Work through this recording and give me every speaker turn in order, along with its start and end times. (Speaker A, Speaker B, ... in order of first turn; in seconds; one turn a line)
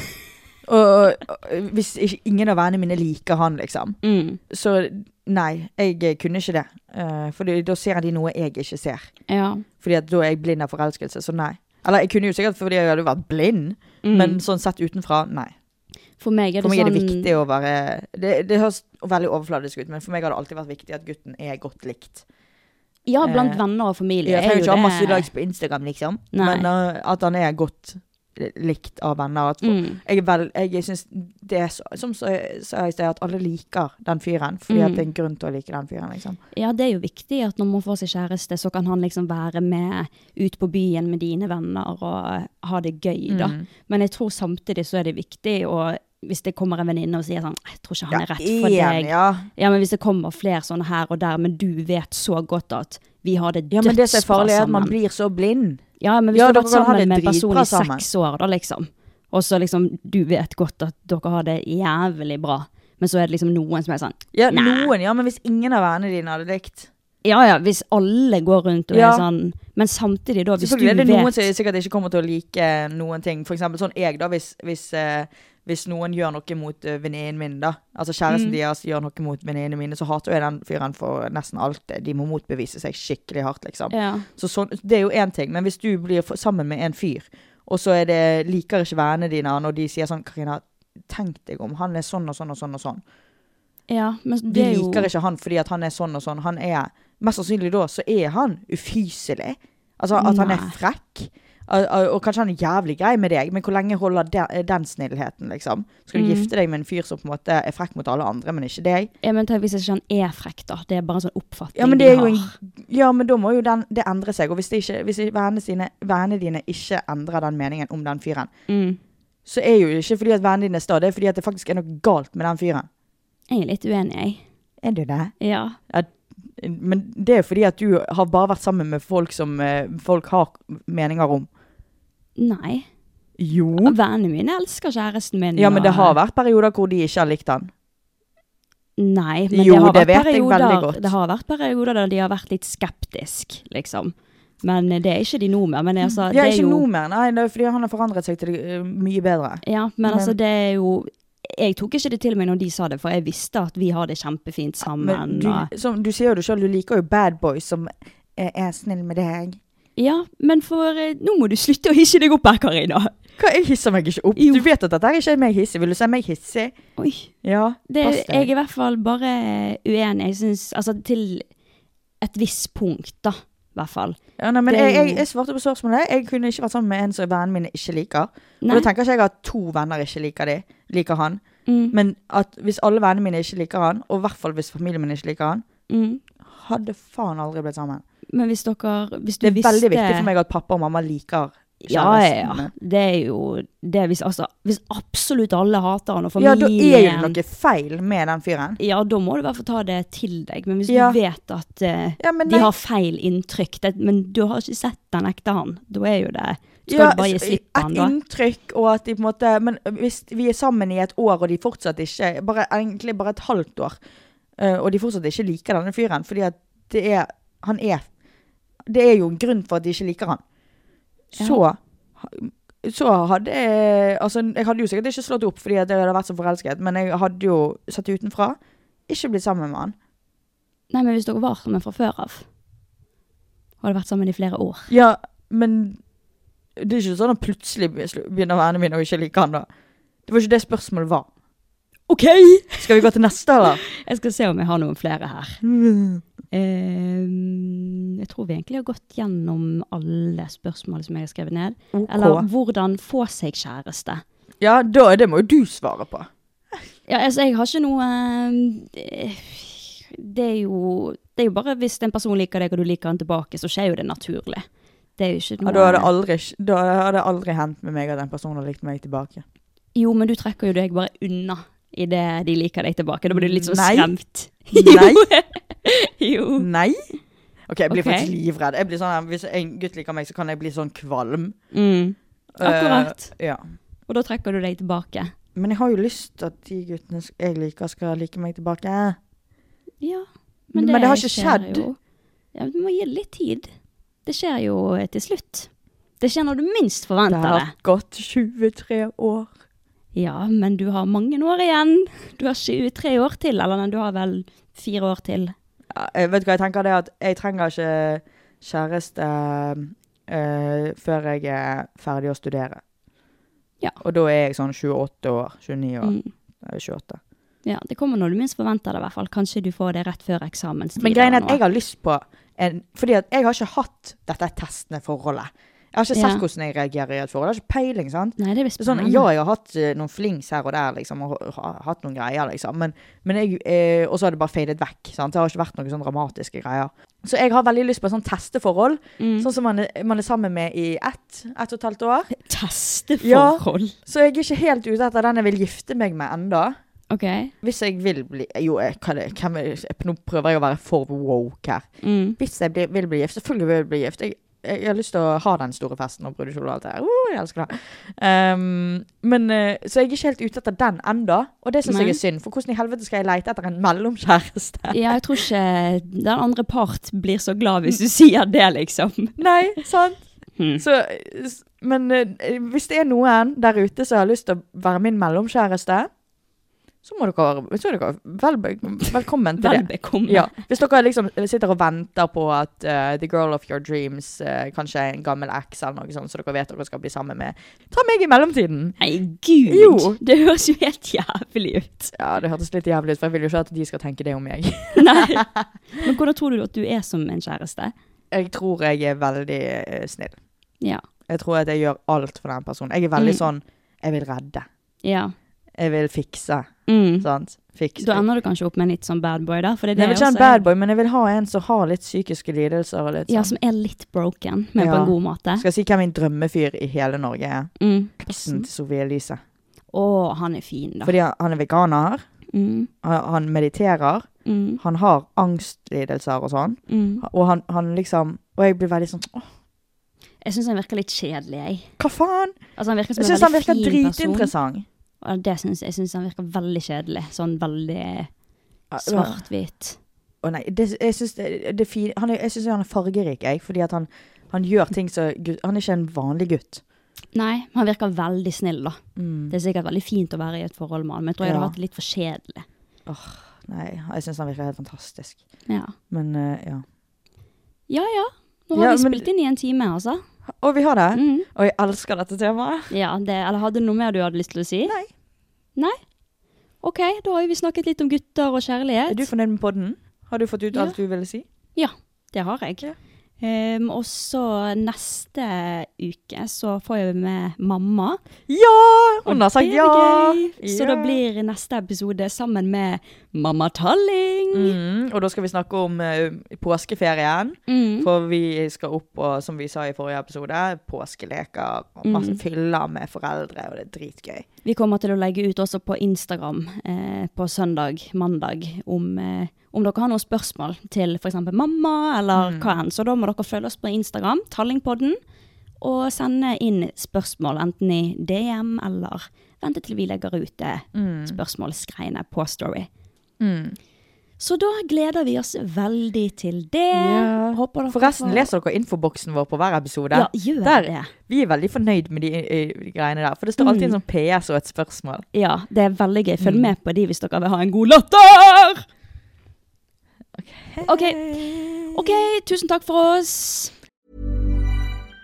Speaker A: 0.7-4.0
Speaker B: 4.0-4.4
Speaker A: 4.5-9.1
Speaker B: 9.3-9.6
Speaker A: 9.8-15.5
Speaker B: 14.0-14.4
Speaker B: 16.2-17.3
Speaker A: 16.6-22.2
Speaker B: 23.1-25.3
Speaker A: 23.2-23.6
Speaker A: 24.2-36.4
Speaker B: 26.3-26.7
Speaker B: 29.6-30.0
Speaker B: 34.7-35.1
Speaker B: 36.5-54.9
Speaker A: 43.3-43.6
Speaker A: 48.1-49.5
Speaker A: 53.7-58.0
Speaker B: 56.0-64.9
Speaker A: 64.3-66.9
Speaker B: 67.2-71.4
Speaker A: 68.9-69.2
Speaker A: 70.6-93.0
Speaker B: 78.3-78.6
Speaker B: 83.9-84.3
Speaker B: 93.9-95.1
Speaker A: 94.5-109.1
Speaker B: 100.2-100.8
Speaker B: 106.1-106.5
Speaker B: 109.2-112.5
Speaker A: 111.8-118.5
Speaker B: 118.7-119.0
Speaker A: 119.5-122.9
Speaker B: 123.5-124.4
Speaker A: 124.8-125.3
Speaker B: 125.4-125.8
Speaker A: 125.9-131.5
Speaker B: 132.4-132.9
Speaker A: 133.4-133.9
Speaker B: 133.8-136.2
Speaker A: 135.6-137.7
Speaker B: 139.0-146.8
Speaker A: 139.5-141.1
Speaker A: 146.3-150.3
Speaker B: 149.6-155.7
Speaker A: 154.8-159.6
Speaker B: 160.0-163.1
Speaker A: 163.4-166.7
Speaker B: 164.4-164.7
Speaker B: 167.0-167.3
Speaker A: 167.4-168.5
Speaker B: 167.9-171.5
Speaker B: 172.2-175.2
Speaker A: 174.4-185.6
Speaker B: 178.6-178.9
Speaker B: 181.7-181.9
Speaker B: 185.9-186.2
Speaker A: 186.4-188.0
Speaker B: 188.3-190.3
Speaker A: 189.4-192.7
Speaker B: 191.8-197.4
Speaker A: 196.4-198.8
Speaker B: 198.8-208.1
Speaker A: 200.9-201.2
Speaker A: 202.2-202.7
Speaker A: 206.9-214.0
Speaker A: 214.6-218.1
Speaker A: 218.9-220.4
Speaker A: 221.3-229.9
Speaker B: 221.3-221.6
Speaker B: 230.9-232.4
Speaker B: 233.8-234.9
Speaker A: 234.9-236.0
Speaker A: 236.8-239.7
Speaker A: 240.3-241.3
Speaker B: 242.1-243.1
Speaker A: 242.8-243.8
Speaker B: 243.6-245.6
Speaker A: 245.6-246.2
Speaker B: 246.5-254.2
Speaker A: 251.9-252.4
Speaker A: 254.6-256.3
Speaker B: 257.1-264.6
Speaker B: 265.2-266.1
Speaker A: 265.6-269.4
Speaker B: 269.9-276.7
Speaker A: 273.3-274.1
Speaker A: 274.7-275.3
Speaker A: 276.6-277.1
Speaker A: 277.7-281.6
Speaker B: 277.9-278.3
Speaker B: 281.7-283.3
Speaker A: 282.6-283.6
Speaker B: 284.1-285.3
Speaker A: 285.5-289.2
Speaker B: 290.0-291.9
Speaker A: 290.7-291.9
Speaker B: 292.5-293.7
Speaker B: 294.2-297.7
Speaker A: 297.3-299.5
Speaker B: 300.1-305.5
Speaker A: 305.9-312.8
Speaker A: 314.0-317.2
Speaker B: 316.0-316.3
Speaker B: 317.6-321.6
Speaker A: 321.0-342.4
Speaker B: 326.1-326.4
Speaker B: 328.4-329.3
Speaker B: 339.2-339.5
Speaker B: 342.4-343.9
Speaker A: 343.2-346.8
Speaker B: 347.1-347.5
Speaker A: 347.6-365.4
Speaker B: 352.0-352.4
Speaker B: 361.9-362.2
Speaker B: 364.9-369.4
Speaker A: 369.4-370.2
Speaker B: 370.6-370.8
Speaker A: 370.8-376.1
Speaker A: 377.0-388.9
Speaker B: 379.6-380.6
Speaker B: 389.0-392.1
Speaker A: 389.7-390.2
Speaker A: 392.1-396.1
Speaker B: 394.9-395.4
Speaker B: 395.9-397.9
Speaker A: 398.3-400.4
Speaker A: 401.3-404.6
Speaker B: 403.1-403.4
Speaker B: 405.0-405.3
Speaker A: 405.8-408.2
Speaker B: 406.9-407.3
Speaker B: 408.0-410.6
Speaker A: 409.9-413.5
Speaker B: 413.3-415.6
Speaker A: 414.8-419.4
Speaker B: 417.8-418.7
Speaker B: 419.9-421.1
Speaker A: 421.0-422.2
Speaker B: 422.5-422.9
Speaker A: 423.0-424.3
Speaker B: 424.4-424.8
Speaker A: 424.8-429.5
Speaker B: 426.9-427.2
Speaker B: 430.4-431.9
Speaker A: 432.0-432.6
Speaker B: 432.8-434.5
Speaker A: 433.2-434.9
Speaker B: 435.2-438.3
Speaker A: 438.9-439.4
Speaker B: 439.0-440.0
Speaker A: 440.4-446.8
Speaker B: 447.3-449.0
Speaker A: 449.1-449.5
Speaker B: 449.5-452.6
Speaker A: 451.4-451.7
Speaker A: 453.1-455.4
Speaker B: 455.7-455.9
Speaker A: 456.1-456.8
Speaker B: 457.9-460.2
Speaker A: 458.7-459.3
Speaker A: 460.5-462.9
Speaker B: 461.1-461.5
Speaker B: 462.9-465.0
Speaker B: 466.8-469.3
Speaker A: 469.1-471.4
Speaker B: 471.7-472.9
Speaker B: 473.4-478.2
Speaker A: 478.5-481.2
Speaker B: 479.2-484.8
Speaker A: 484.5-494.4
Speaker B: 487.7-488.1
Speaker B: 492.0-492.4
Speaker B: 494.6-505.2
Speaker A: 502.4-502.7
Speaker B: 505.8-512.9
Speaker A: 510.9-511.4
Speaker A: 513.4-513.8
Speaker B: 514.4-518.5
Speaker A: 516.9-525.2
Speaker B: 520.1-521.1
Speaker B: 523.6-524.0
Speaker B: 525.3-528.8
Speaker A: 526.4-526.7
Speaker A: 530.4-532.0
Speaker B: 530.8-533.7